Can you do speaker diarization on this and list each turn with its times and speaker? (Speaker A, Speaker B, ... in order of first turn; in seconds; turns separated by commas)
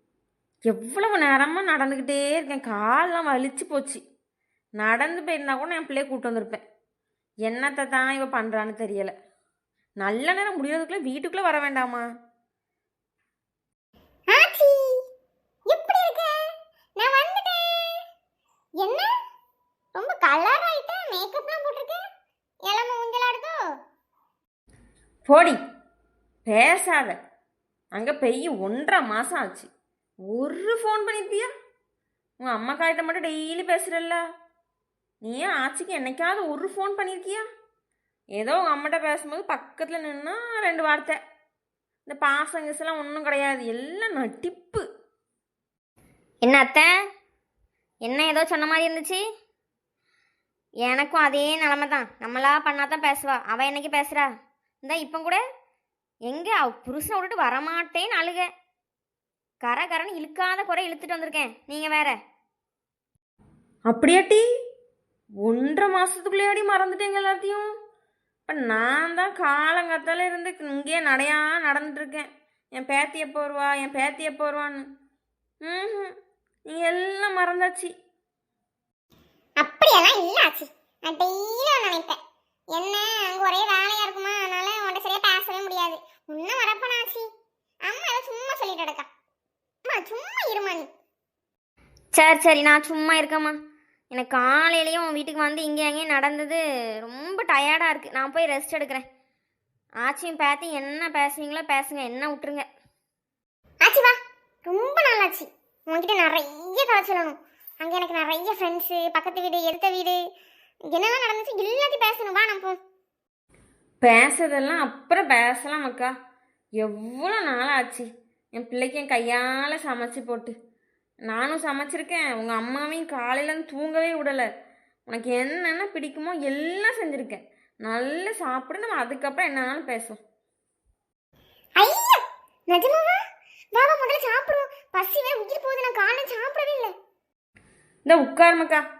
Speaker A: 0.7-4.0, Speaker A: 4.8-6.6, Speaker A: 7.5-9.1, Speaker A: 10.0-12.0, Speaker B: 14.3-15.0, Speaker B: 15.7-16.3, Speaker B: 17.0-18.0, Speaker B: 18.8-19.1, Speaker B: 20.0-22.0, Speaker B: 22.6-23.6, Speaker A: 25.3-25.6, Speaker A: 26.4-27.2, Speaker A: 27.9-29.7, Speaker A: 30.3-31.5, Speaker A: 32.4-34.2, Speaker A: 35.2-37.4, Speaker A: 38.4-41.2, Speaker A: 42.0-44.8, Speaker C: 46.4-46.9, Speaker C: 48.0-49.2, Speaker C: 50.8-54.3, Speaker C: 54.8-55.4, Speaker C: 56.2-58.5, Speaker C: 59.6-62.2, Speaker A: 63.9-64.4, Speaker A: 65.4-67.7, Speaker A: 68.5-74.9, Speaker A: 75.6-76.1, Speaker A: 76.7-77.9, Speaker B: 79.6-82.2, Speaker B: 82.8-87.2, Speaker B: 87.9-89.0, Speaker B: 89.8-90.8, Speaker C: 92.1-93.6, Speaker C: 94.1-99.0, Speaker C: 100.0-102.7, Speaker B: 103.8-104.1, Speaker B: 104.7-110.2, Speaker B: 110.9-112.8, Speaker A: 114.0-116.1, Speaker A: 116.8-120.5, Speaker A: 121.3-124.5, Speaker A: 125.1-130.2, Speaker B: 131.8-133.2, Speaker B: 133.7-136.9, Speaker A: 138.0-138.8